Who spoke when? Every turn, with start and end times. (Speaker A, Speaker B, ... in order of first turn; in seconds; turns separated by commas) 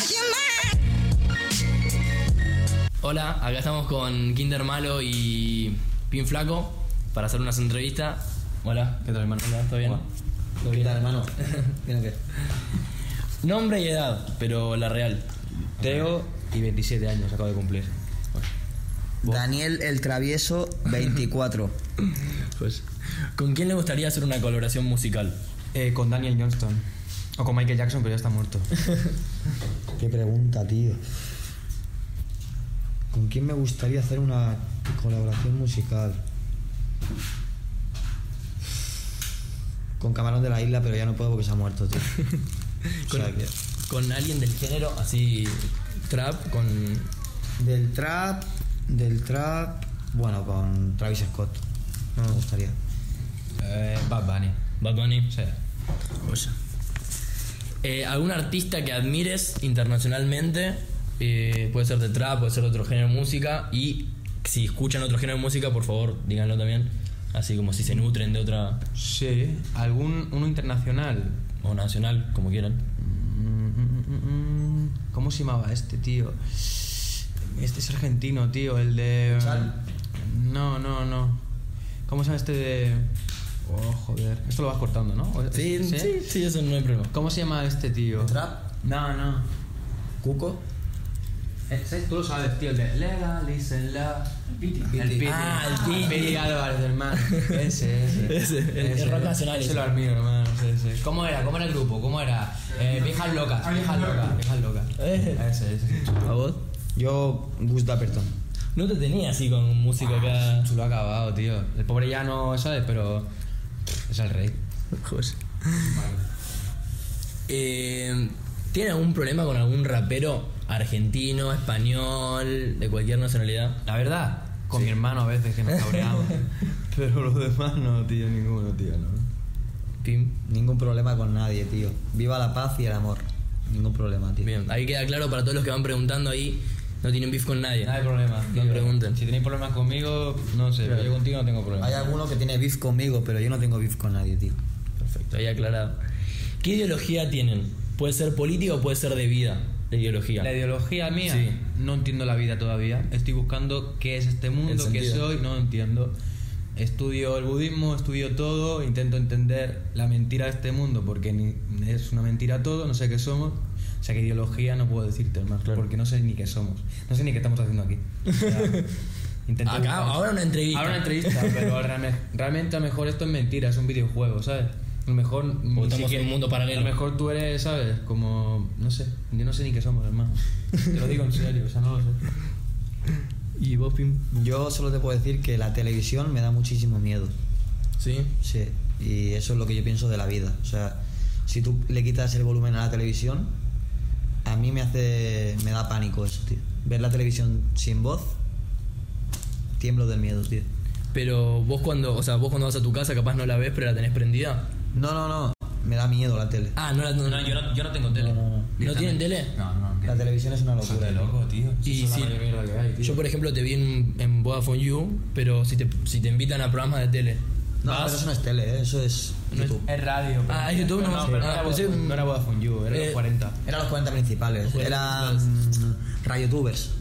Speaker A: 3.0-10.0, Speaker B: 9.0-10.0, Speaker C: 10.6-12.2, Speaker B: 10.6-11.1, Speaker A: 13.4-16.1, Speaker B: 15.8-18.5, Speaker C: 19.2-21.7, Speaker A: 22.6-25.4, Speaker B: 25.7-26.8, Speaker B: 27.4-28.7, Speaker C: 30.0-31.0, Speaker C: 33.1-36.2, Speaker C: 40.0-42.1, Speaker A: 43.0-47.1, Speaker C: 43.1-43.5, Speaker C: 47.6-51.6, Speaker C: 52.1-52.8, Speaker B: 53.6-54.6, Speaker A: 54.8-55.3, Speaker B: 55.3-55.6, Speaker A: 56.2-56.5, Speaker A: 57.8-68.8, Speaker B: 68.9-71.4, Speaker A: 71.6-72.8, Speaker B: 73.0-81.4, Speaker C: 79.3-79.7, Speaker B: 82.1-83.1, Speaker B: 83.6-86.3, Speaker A: 85.5-87.1, Speaker B: 87.1-89.5, Speaker C: 88.1-88.7, Speaker C: 90.2-90.6, Speaker B: 91.7-106.3, Speaker C: 94.8-95.3, Speaker A: 95.1-96.5, Speaker A: 98.2-99.9, Speaker A: 105.0-105.4, Speaker A: 106.1-106.6, Speaker C: 106.9-108.3, Speaker A: 108.7-110.7, Speaker B: 110.0-113.3, Speaker B: 114.1-114.6, Speaker A: 114.9-116.0, Speaker B: 115.8-116.2, Speaker A: 117.5-123.8, Speaker B: 123.8-129.3, Speaker A: 130.0-130.4, Speaker C: 130.4-134.5, Speaker A: 134.4-137.9, Speaker B: 137.8-142.1, Speaker A: 138.5-139.2, Speaker A: 140.8-141.2, Speaker C: 141.8-144.6, Speaker A: 145.0-146.0, Speaker A: 146.6-150.5, Speaker B: 150.4-156.1, Speaker A: 151.2-151.6, Speaker A: 154.7-155.2, Speaker B: 156.8-168.9, Speaker A: 168.3-168.8, Speaker B: 169.5-182.3, Speaker A: 169.6-171.7, Speaker A: 175.7-176.9, Speaker A: 183.6-184.2, Speaker C: 184.3-187.3, Speaker A: 188.0-188.3, Speaker C: 188.4-193.5, Speaker C: 194.4-198.3, Speaker C: 199.8-200.7, Speaker A: 201.1-204.7, Speaker C: 204.9-206.7, Speaker A: 206.8-207.6, Speaker B: 207.2-210.3, Speaker C: 208.1-208.7, Speaker A: 208.8-209.5, Speaker C: 210.0-211.3, Speaker B: 210.8-213.2, Speaker A: 211.8-212.4, Speaker A: 213.0-218.2, Speaker C: 217.8-219.8, Speaker A: 219.5-219.8, Speaker B: 219.6-223.6, Speaker A: 220.5-222.2, Speaker C: 221.1-221.5, Speaker A: 222.9-223.2, Speaker C: 223.6-226.9, Speaker A: 224.6-225.5